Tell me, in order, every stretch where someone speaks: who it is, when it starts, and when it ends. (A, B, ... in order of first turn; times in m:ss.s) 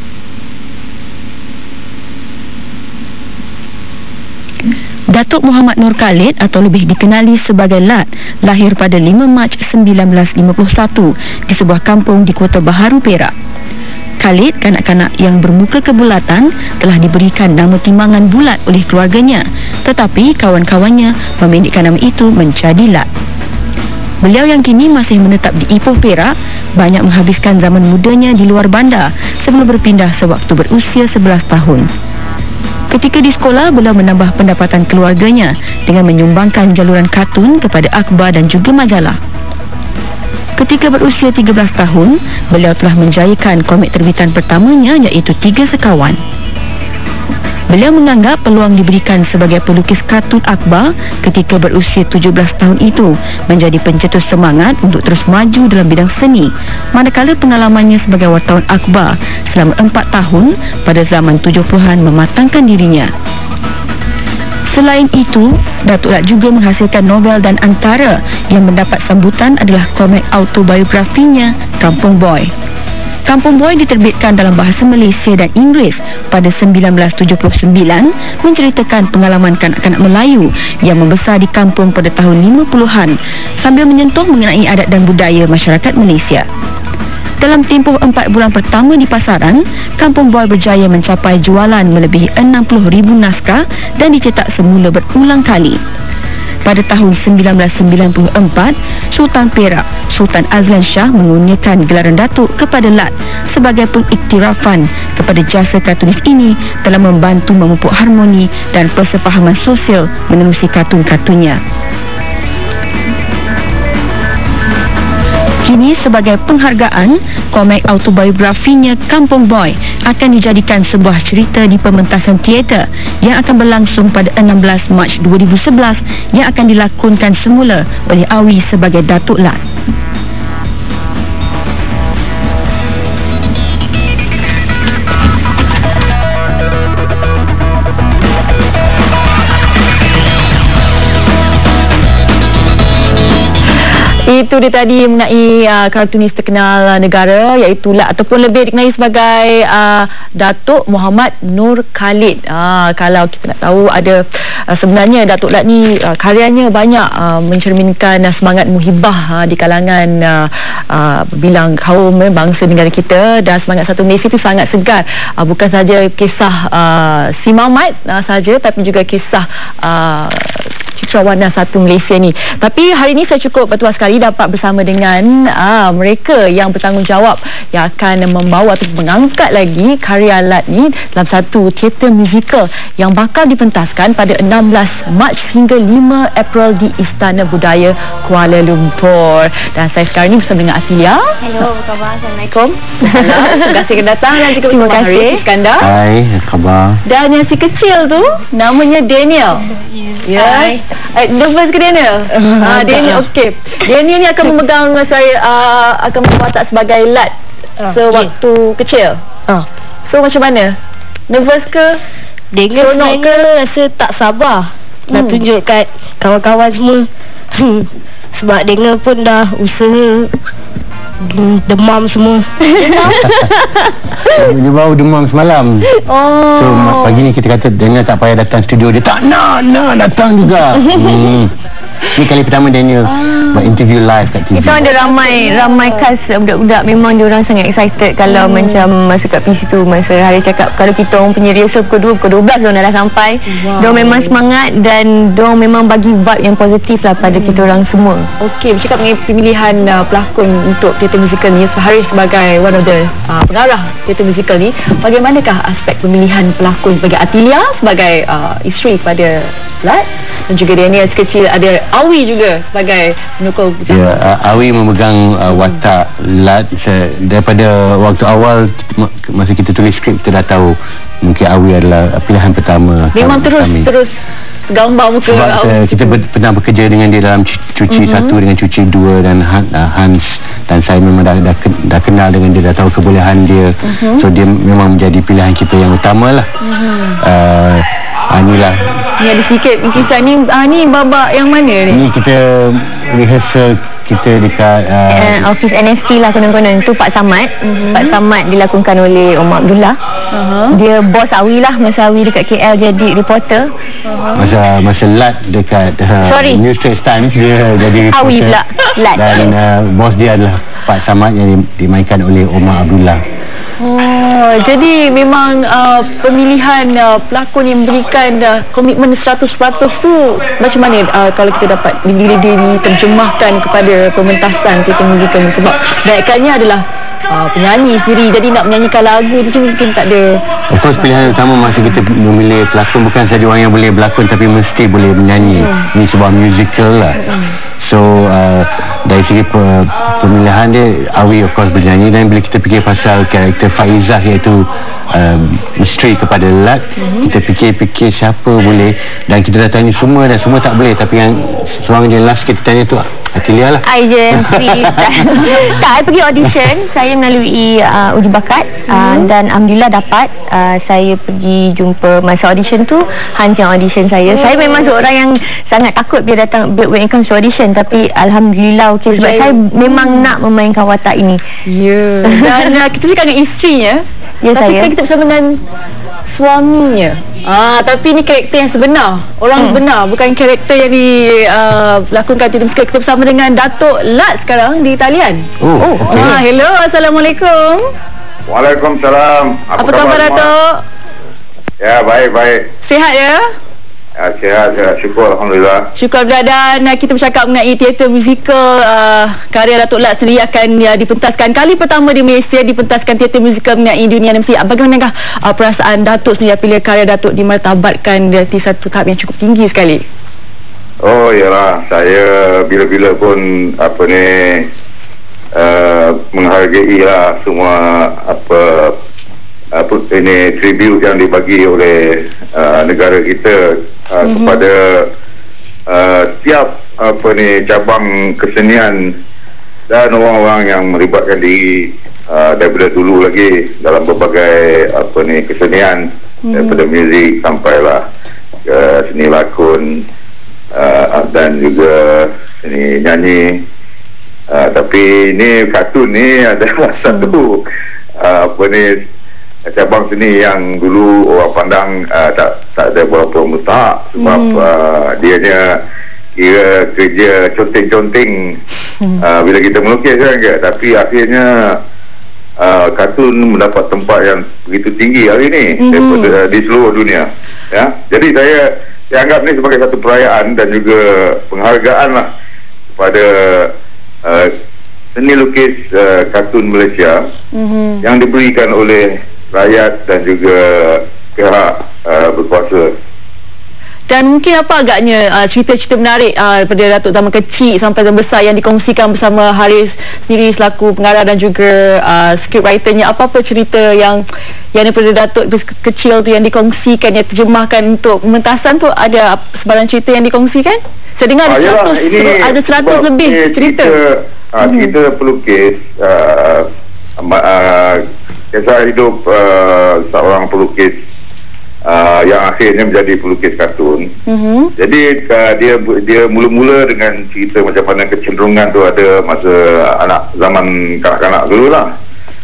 0:05.1-0:13.3 A
0:14.2-0:23.1 A
0:24.2-0:31.9 A
0:32.9-0:39.2 A
0:40.6-0:46.2 A
0:47.7-1:03.1 A
1:04.7-1:12.5 A
1:13.2-1:26.5 A
1:27.4-1:35.8 A
1:36.6-1:51.6 A
1:55.6-2:09.6 A
2:24.3-3:11.4 B
3:11.4-3:12.5 C
3:12.5-3:15.9 B
3:13.0-3:13.6 C
3:14.6-3:15.4 C
3:15.8-3:17.0 D
3:17.1-3:19.7 B
3:19.9-3:20.8 E
3:20.2-3:27.3 B
3:22.3-3:23.2 E
3:27.8-3:28.3 E
3:27.9-3:29.2 B
3:30.1-3:30.8 B
3:31.3-3:32.0 B
3:32.5-3:40.3 E
3:32.8-3:33.5 B
3:41.3-3:43.3 E
3:43.2-3:43.5 D
3:44.3-3:45.9 D
3:46.0-3:47.3 B
3:46.5-3:51.5 D
3:51.0-3:51.4 C
3:52.2-3:54.8 D
3:53.1-3:53.8 B
3:54.5-4:08.3 C
3:54.8-3:56.1 B
3:58.3-3:58.9 B
4:03.5-4:04.4 B
4:07.3-4:07.7 B
4:08.4-4:24.2 B
4:23.9-4:33.9 D
4:33.1-4:34.1 B
4:34.7-4:36.2 B
4:35.3-4:46.5 D
4:37.9-4:38.4 B
4:43.9-4:44.2 B
4:46.6-4:47.2 B
4:47.2-4:49.0 D
4:49.2-4:52.1 B
4:51.9-4:55.5 D
4:55.1-5:00.0 C
4:57.6-4:58.2 B
5:00.3-5:00.8 B
5:00.7-5:03.7 C
5:04.0-5:04.5 B
5:04.4-5:08.6 D
5:06.3-5:06.6 C
5:08.1-5:09.5 C
5:09.1-5:13.2 D
5:13.8-5:30.4 B
5:30.7-5:37.2 D
5:31.0-5:32.0 B
5:35.4-5:35.8 B
5:37.2-5:37.5 B
5:37.8-5:55.4 D
5:47.0-5:47.3 B
5:53.8-6:11.4 C
5:58.9-5:59.3 B
6:04.3-6:05.0 B
6:09.1-6:10.3 B
6:11.7-6:15.6 B
6:12.3-6:12.7 C
6:14.4-6:14.9 C
6:16.4-6:27.9 B
6:19.6-6:19.8 C
6:25.6-6:26.4 D
6:26.1-6:26.4 C
6:28.5-6:30.5 F
6:29.8-6:30.8 B
6:31.8-6:32.7 F
6:32.8-6:33.5 B
6:34.2-6:35.9 F
6:36.0-6:50.0 B
6:51.0-6:54.7 F
6:55.5-6:59.0 F
6:59.7-7:05.1 F
7:04.2-7:04.6 B
7:05.9-7:09.2 F
7:09.9-7:18.1 F
7:16.5-7:16.8 B
7:18.7-7:20.0 F
7:20.7-7:23.6 F
7:24.5-7:27.7 F
7:28.2-7:29.0 F
7:29.7-7:35.8 F
7:34.2-7:34.7 B
7:36.4-7:38.6 F
7:39.2-7:41.8 F
7:42.6-7:52.3 F
7:45.8-7:46.4 B
7:53.0-7:53.7 F
7:54.2-7:54.5 F
7:55.2-7:57.3 F
7:57.5-7:58.0 B
7:58.0-8:03.0 F
8:04.1-8:23.9 B
8:21.4-8:26.7 F
8:24.6-8:24.9 B
8:27.2-8:31.0 F
8:31.8-8:34.1 F
8:34.3-8:34.7 B
8:34.8-8:41.9 F